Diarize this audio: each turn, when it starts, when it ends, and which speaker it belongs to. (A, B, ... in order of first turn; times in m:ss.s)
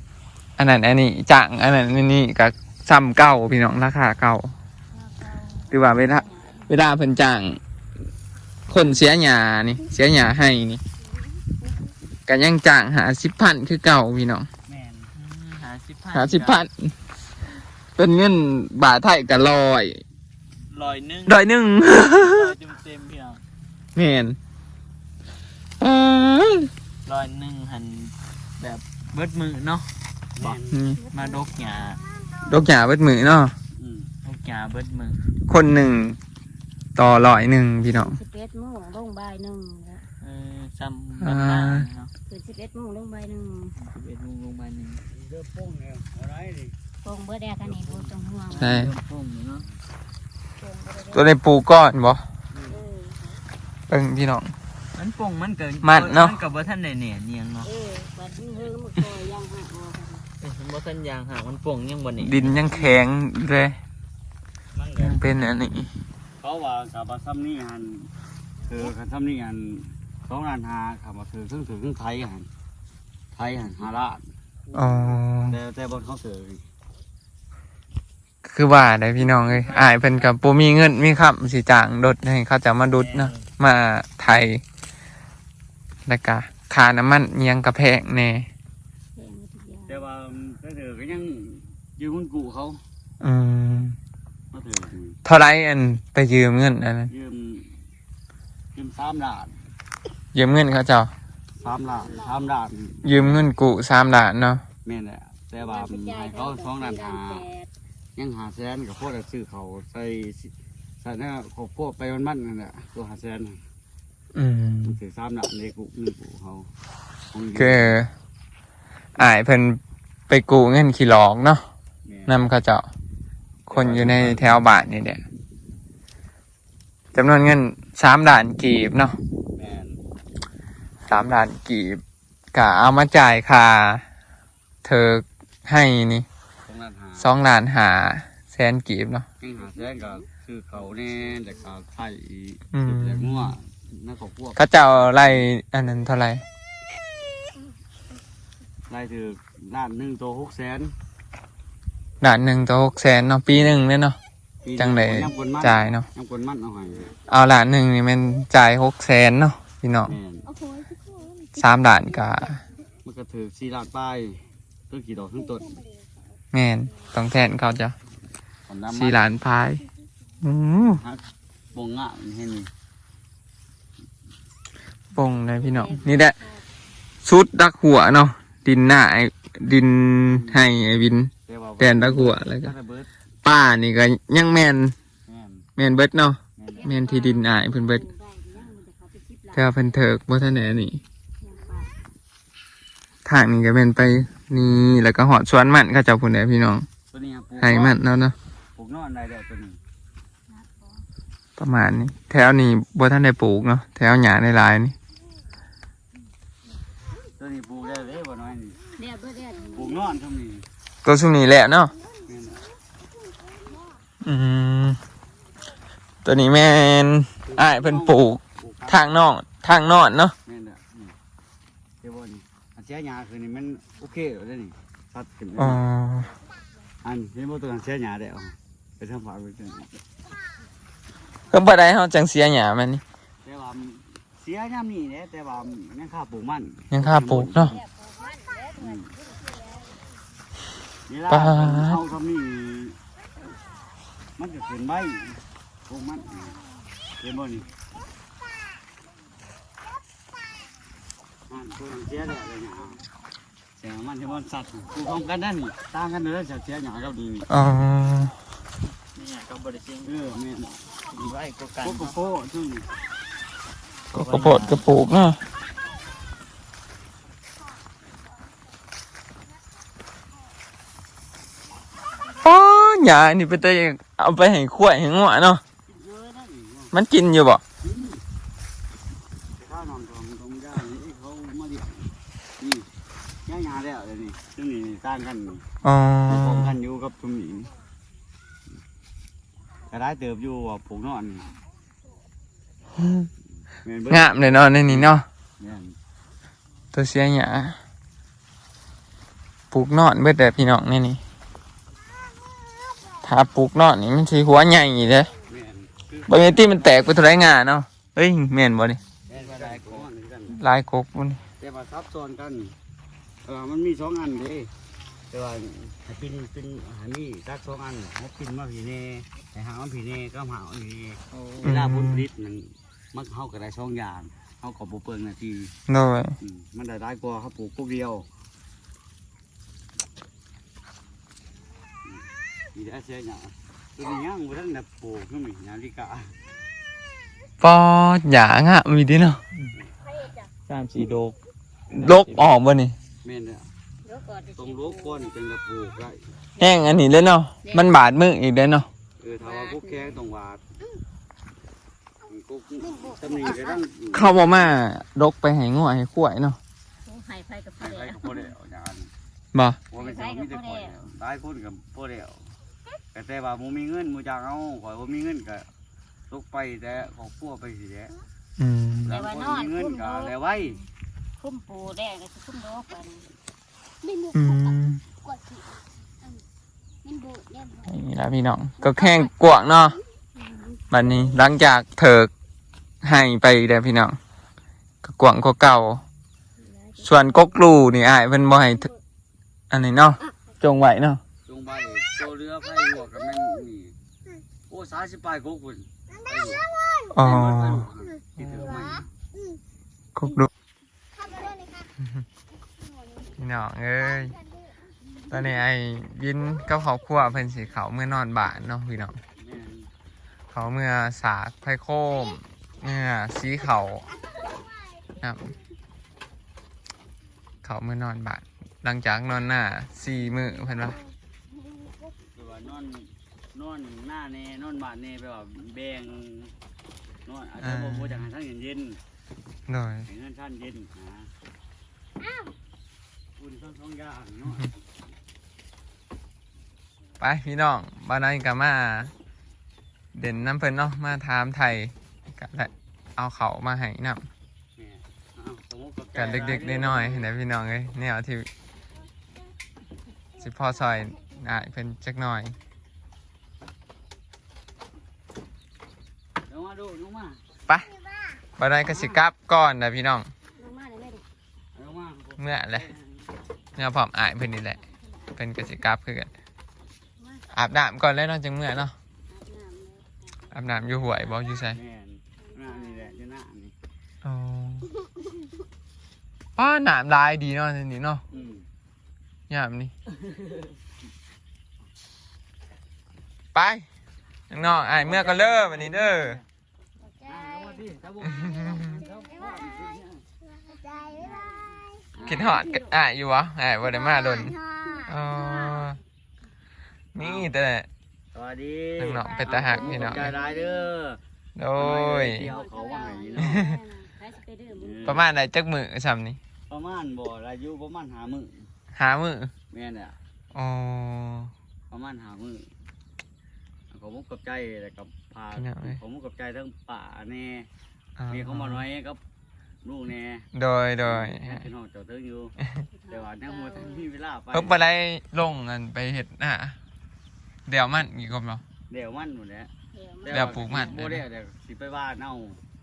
0:00.6-0:04.5 A
0:04.9-0:06.7 B
0:05.7-0:07.6 A
0:08.7-0:10.8 A
0:12.3-0:14.5 A
0:14.7-0:15.1 C
0:15.2-0:16.6 D
0:16.1-0:16.9 A
0:18.0-0:20.0 A
0:20.7-0:21.4 D
0:21.2-0:22.6 A
0:22.0-0:23.4 D
0:24.0-0:24.4 A
0:25.8-0:26.7 A
0:27.0-0:30.6 D
0:30.4-0:30.8 C
0:30.7-0:31.0 A
0:31.0-0:31.5 B
0:31.1-0:32.0 D
0:32.4-0:33.5 A
0:33.8-0:34.1 C
0:34.2-0:35.2 D
0:35.5-0:36.2 A
0:37.0-0:38.2 A
0:37.9-0:40.0 B
0:40.2-0:42.1 D
0:41.2-0:41.9 A
0:42.3-0:43.7 B
0:43.8-0:45.0 D
0:45.1-0:46.7 C
0:47.0-0:48.8 B
0:47.7-0:48.1 C
0:48.5-0:49.6 D
0:48.6-0:48.9 A
0:50.6-0:51.3 B
0:51.1-0:52.2 A
0:52.5-0:52.8 C
0:52.7-0:53.2 B
0:53.9-0:54.5 A
0:54.9-0:57.7 D
0:55.8-0:56.4 A
0:57.6-1:00.3 B
1:00.4-1:02.7 D
1:02.2-1:03.8 A
1:04.7-1:05.2 C
1:05.0-1:05.9 A
1:06.4-1:08.1 C
1:08.7-1:12.5 C
1:13.3-1:14.2 C
1:14.7-1:15.6 A
1:15.4-1:16.6 C
1:18.4-1:24.6 A
1:19.2-1:20.3 C
1:22.9-1:23.4 C
1:26.0-1:28.5 A
1:29.2-1:30.0 B
1:29.9-1:32.8 C
1:33.2-1:34.0 A
1:34.5-1:35.2 C
1:35.2-1:37.1 A
1:37.1-1:37.7 C
1:38.7-1:39.5 C
1:40.3-1:41.1 A
1:41.6-1:43.5 C
1:42.0-1:42.4 B
1:43.0-1:44.6 A
1:44.8-1:47.4 C
1:45.6-1:47.7 B
1:48.2-1:53.6 C
1:54.3-1:55.0 A
1:54.8-1:56.7 C
1:57.3-1:57.9 C
1:57.6-1:58.1 A
1:59.2-2:01.6 A
2:02.0-2:02.4 C
2:02.3-2:02.8 A
2:03.7-2:05.2 A
2:03.7-2:04.5 C
2:07.1-2:09.2 A
2:09.5-2:10.0 C
2:11.1-2:12.0 A
2:12.5-2:14.0 A
2:14.8-2:16.2 A
2:16.7-2:17.3 C
2:17.2-2:19.2 A
2:19.4-2:25.4 C
2:22.7-2:23.5 A
2:24.6-2:26.4 A
2:28.9-2:30.9 C
2:32.2-2:34.2 A
2:34.6-2:37.1 C
2:34.8-2:36.0 A
2:37.3-2:40.1 A
2:40.1-2:40.4 C
2:40.5-2:41.6 B
2:41.5-2:42.6 A
2:43.0-2:45.8 C
2:45.8-2:46.0 B
2:46.5-2:47.9 A
2:48.7-2:49.3 C
2:48.9-2:49.8 A
2:50.4-2:51.0 A
2:50.8-2:51.2 C
2:51.7-2:52.7 C
2:55.1-2:56.4 A
2:55.4-2:56.6 B
2:57.2-3:02.7 A
3:00.3-3:00.6 C
3:01.5-3:03.1 C
3:03.4-3:04.9 A
3:05.2-3:05.6 C
3:05.8-3:08.0 A
3:06.6-3:07.0 C
3:06.8-3:10.0 B
3:09.5-3:11.0 A
3:11.4-3:11.9 B
3:13.2-3:16.8 A
3:17.1-3:18.0 C
3:17.6-3:18.3 A
3:18.8-3:19.8 C
3:20.5-3:21.0 B
3:21.6-3:24.9 A
3:27.4-3:28.8 C
3:29.0-3:30.0 B
3:29.7-3:30.6 C
3:31.0-3:31.9 A
3:32.2-3:32.6 C
3:34.2-3:35.0 A
3:36.2-3:40.4 A
3:37.5-3:39.1 C
3:40.4-3:41.1 C
3:42.0-3:45.8 C
3:45.6-3:46.3 A
3:47.0-3:50.0 C
3:51.5-3:53.0 A
3:53.4-3:57.7 C
3:56.9-3:57.8 A
3:57.7-4:00.0 B
3:58.8-3:59.1 C
4:01.1-4:03.0 C
4:01.3-4:02.0 A
4:04.4-4:06.5 C
4:07.2-4:07.7 C
4:11.5-4:13.0 C
4:13.8-4:17.5 C
4:17.5-4:18.3 A
4:19.1-4:20.2 D
4:20.0-4:20.9 C
4:21.1-4:22.2 D
4:21.8-4:22.9 C
4:24.1-4:25.4 A
4:24.1-4:24.8 D
4:32.4-4:35.6 A
4:35.8-4:36.9 C
4:36.9-4:37.6 A
4:37.8-4:38.2 C
4:39.6-4:42.9 C
4:43.4-4:45.6 C
4:45.8-4:46.8 A
4:46.3-4:47.7 C
4:49.9-4:51.5 C
4:53.8-4:55.9 C
4:54.1-4:55.2 A
4:56.9-4:57.8 A
4:59.7-5:01.2 A
5:03.2-5:05.3 A
5:05.5-5:07.1 C
5:06.3-5:09.0 A
5:09.3-5:10.6 C
5:09.3-5:10.0 D
5:10.5-5:11.4 A
5:11.6-5:12.7 C
5:13.4-5:14.7 C
5:15.3-5:25.7 C
5:21.3-5:21.7 D
5:21.6-5:22.2 A
5:25.9-5:26.3 A
5:26.4-5:28.3 C
5:32.0-5:36.4 C
5:37.6-5:39.4 A
5:40.6-5:41.4 D
5:41.9-5:42.5 D
5:41.9-5:43.0 A
5:43.2-5:43.7 C
5:44.0-5:45.3 B
5:44.6-5:46.2 C
5:46.6-5:48.9 A
5:47.6-5:47.9 B
5:49.2-5:50.6 C
5:49.4-5:50.2 B
5:52.3-5:54.7 C
5:53.0-5:53.8 B
5:54.1-5:56.6 A
5:57.0-5:58.5 B
5:57.8-5:59.1 C
5:59.5-5:59.8 A
5:59.9-6:02.5 C
6:00.0-6:01.0 B
6:03.1-6:05.7 C
6:06.3-6:08.1 C
6:08.6-6:09.2 A
6:09.0-6:10.8 C
6:09.1-6:10.8 B
6:11.4-6:13.3 B
6:14.0-6:14.7 B
6:14.3-6:15.0 A
6:15.2-6:15.7 B
6:17.0-6:18.0 B
6:17.9-6:20.0 A
6:18.8-6:19.3 B
6:20.4-6:21.4 B
6:20.9-6:22.3 A
6:23.0-6:24.2 A
6:25.0-6:26.0 A
6:26.6-6:27.5 B
6:27.0-6:28.9 A
6:29.7-6:31.2 A
6:31.4-6:33.9 C
6:34.7-6:39.1 C
6:37.1-6:37.8 A
6:40.1-6:40.5 A
6:43.4-6:44.4 A
6:45.3-6:49.2 A
6:49.4-6:49.9 C
6:50.5-6:54.1 A
6:55.2-6:55.5 A
6:57.6-7:01.0 A
7:02.2-7:06.5 C
7:07.2-7:09.0 C
7:07.6-7:08.3 A
7:09.7-7:10.1 A
7:10.0-7:11.3 C
7:13.4-7:14.9 C
7:17.2-7:19.1 A
7:20.1-7:24.2 A
7:24.8-7:27.3 C
7:26.2-7:28.5 A
7:30.4-7:32.5 A
7:36.5-7:37.4 C
7:38.6-7:40.3 A
7:38.8-7:39.2 C
7:40.6-7:41.2 B
7:41.8-7:43.3 C
7:42.4-7:42.9 A
7:43.8-7:44.8 A
7:44.6-7:45.4 B
7:45.4-7:46.3 A
7:47.2-7:47.5 B
7:47.5-7:48.9 A
7:49.3-7:51.6 B
7:50.5-7:51.8 A
7:51.7-7:53.7 C
7:52.4-7:53.2 B
7:54.2-7:54.9 A
7:56.6-7:58.2 A
7:58.3-7:58.6 C
7:59.5-7:59.9 A
8:00.2-8:00.7 C
8:03.5-8:03.9 A
8:04.5-8:06.4 A
8:04.7-8:06.4 C
8:07.1-8:07.8 B
8:07.2-8:10.3 C
8:08.5-8:09.1 B
8:10.7-8:12.9 B
8:12.1-8:12.6 C
8:12.2-8:16.0 A
8:14.5-8:15.9 B
8:17.1-8:17.9 A
8:17.2-8:17.5 C
8:18.3-8:21.2 C
8:19.0-8:20.3 A
8:19.2-8:20.5 B
8:21.6-8:22.5 A
8:21.8-8:23.6 C
8:22.4-8:25.2 B
8:23.4-8:23.8 A
8:24.7-8:25.2 C
8:25.0-8:26.4 A
8:26.7-8:28.7 C
8:28.9-8:29.5 A
8:29.7-8:30.2 C
8:30.5-8:31.5 A
8:31.9-8:32.7 C
8:33.9-8:37.7 C
8:35.6-8:36.0 A
8:38.2-8:38.8 A
8:38.3-8:39.2 C
8:39.8-8:40.5 C
8:40.5-8:41.7 A
8:41.0-8:42.5 C
8:42.9-8:44.1 B
8:43.1-8:44.8 C
8:44.5-8:46.8 A
8:47.7-8:48.6 A
8:48.9-8:49.7 C
8:49.9-8:51.0 B
8:50.2-8:52.6 C
8:50.3-8:51.2 A